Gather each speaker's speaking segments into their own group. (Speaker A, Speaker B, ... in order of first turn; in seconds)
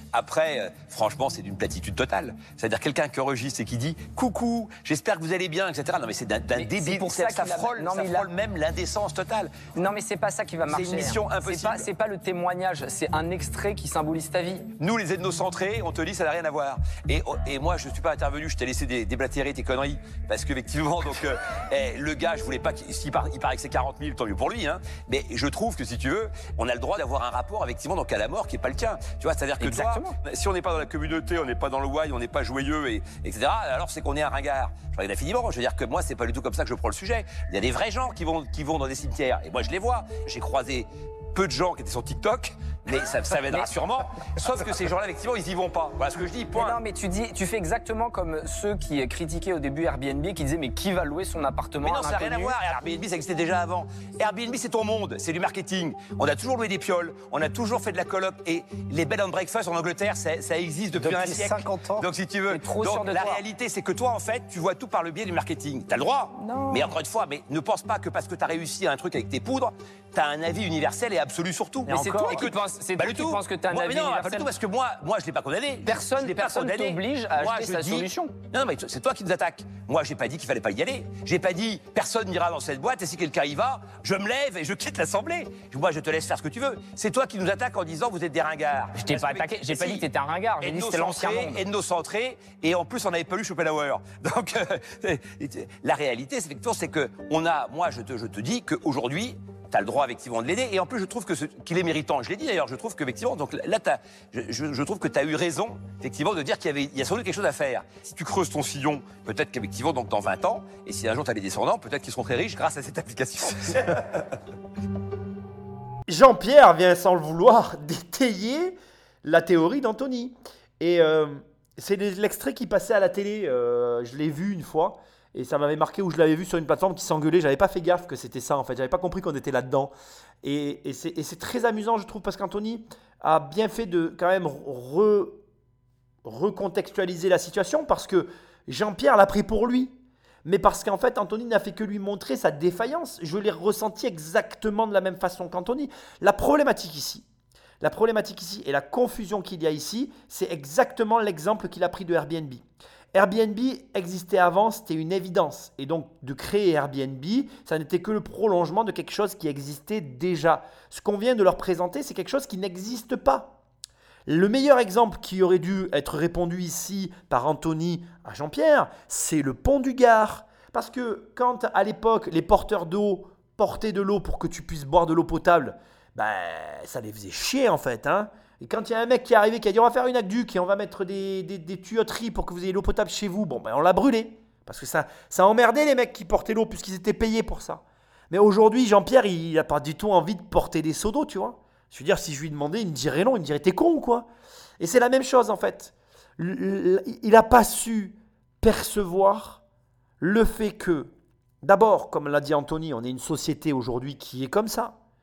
Speaker A: 0.1-9.7, 10.7-11.9, 14.8-46.8, 51.8-90.1, 90.6-114.0
Speaker B: 6.6-8.3, 9.7-14.7, 29.6-30.2, 46.5-52.7, 60.9-63.4, 66.3-67.0, 71.9-74.5, 75.8-78.3, 89.0-91.6
Speaker C: 116.1-135.4, 136.2-147.3, 147.8-163.6, 164.3-194.3, 194.8-199.6, 200.2-201.1, 201.6-205.0